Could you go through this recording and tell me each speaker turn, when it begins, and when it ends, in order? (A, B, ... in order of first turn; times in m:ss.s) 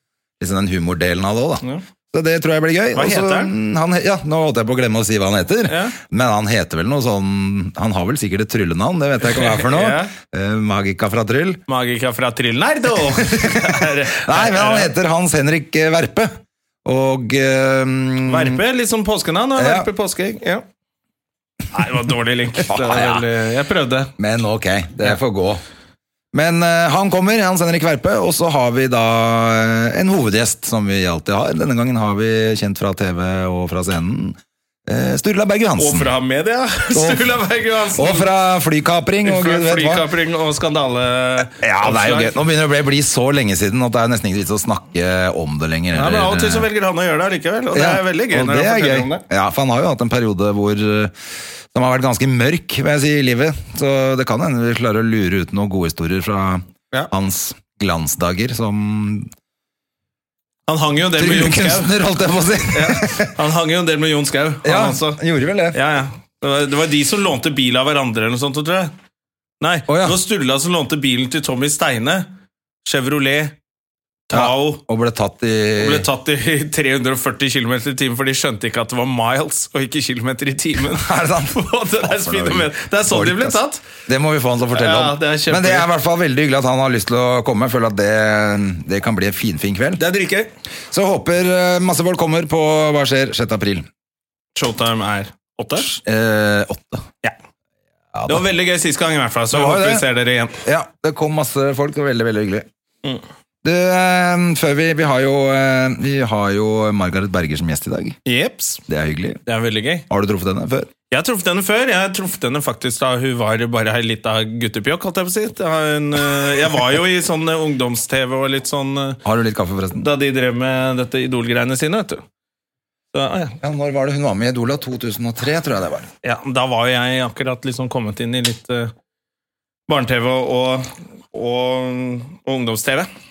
0:00.4-0:11.6 A
0:02.9-0:03.5 B
0:05.7-0:06.0 B
0:09.2-0:10.1 B
0:11.7-0:14.9 B
0:13.2-0:18.6 A
0:18.2-0:20.6 B
0:19.6-0:19.9 A
0:21.7-0:24.1 B
0:22.6-0:23.2 A
0:24.2-0:25.6 A
0:26.3-0:36.1 A
0:35.8-0:38.3 B
0:36.9-0:37.3 A
0:38.0-0:40.0 A
0:39.2-0:42.4 B
0:41.5-0:46.7 A
0:45.9-0:49.2 B
0:47.7-0:51.1 A
0:51.7-0:59.3 A
1:00.7-1:01.9 B
1:01.2-1:03.3 A
1:02.7-1:05.2 B
1:04.6-1:05.8 A
1:05.7-1:08.9 B
1:09.6-1:12.3 B
1:09.9-1:10.2 A
1:12.8-1:13.6 B
1:14.3-1:14.8 B
1:14.3-1:16.1 A
1:15.8-1:23.8 B
1:20.9-1:30.0 A
1:24.7-1:25.9 B
1:30.0-1:30.5 B
1:30.9-1:33.9 A
1:34.6-1:35.9 B
1:35.8-1:37.1 A
1:38.1-1:38.4 A
1:38.3-1:40.6 B
1:39.5-1:40.1 A
1:40.6-1:42.7 A
1:43.6-1:48.2 A
1:48.2-1:48.8 B
1:48.9-1:49.4 A
1:49.5-1:50.1 B
1:50.1-1:50.9 A
1:51.1-1:59.2 B
1:59.2-2:00.1 A
2:00.0-2:02.2 B
2:03.1-2:03.6 B
2:03.6-2:06.1 A
2:06.2-2:08.9 B
2:09.9-2:13.1 B